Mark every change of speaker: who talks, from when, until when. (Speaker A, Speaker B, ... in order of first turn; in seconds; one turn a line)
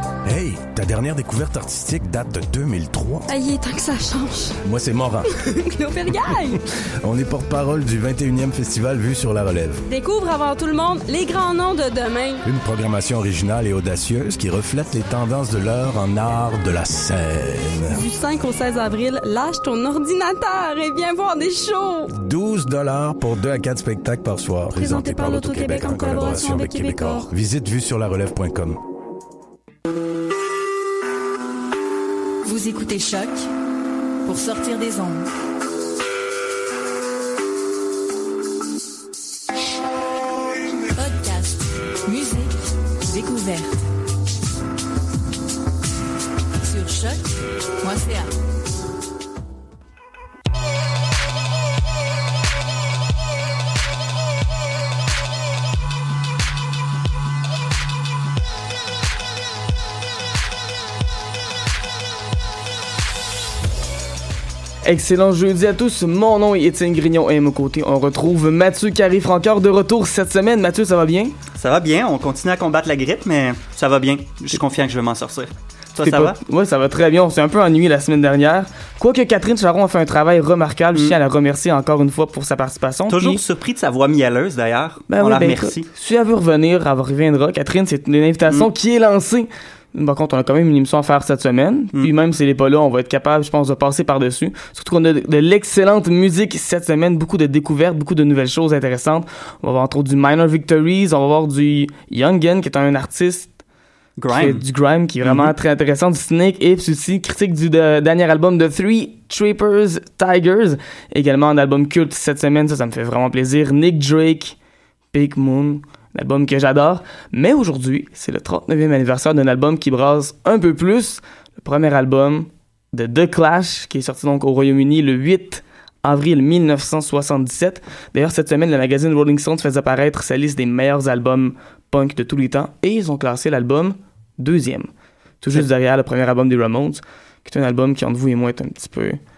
Speaker A: 0.3-3.3
Speaker B: 3.3-4.5
Speaker A: 4.6-5.3
Speaker B: 5.5-6.6
Speaker A: 6.2-9.9
Speaker B: 9.9-12.4
Speaker A: 12.4-18.0
Speaker B: 17.9-22.1
Speaker A: 22.1-28.8
Speaker B: 24.7-27.3
Speaker C: 32.4-33.5
Speaker C: 34.2-35.3
Speaker C: 41.0-43.8
Speaker C: 46.6-47.3
Speaker C: 47.8-48.3
Speaker D: 64.8-71.3
Speaker E: 71.5-76.4
Speaker D: 76.0-83.4
Speaker E: 83.1-85.9
Speaker D: 85.1-103.5
Speaker E: 104.2-104.6
Speaker D: 104.3-114.6
Speaker E: 105.2-105.5
Speaker D: 115.1-134.9
Speaker D: 135.4-139.2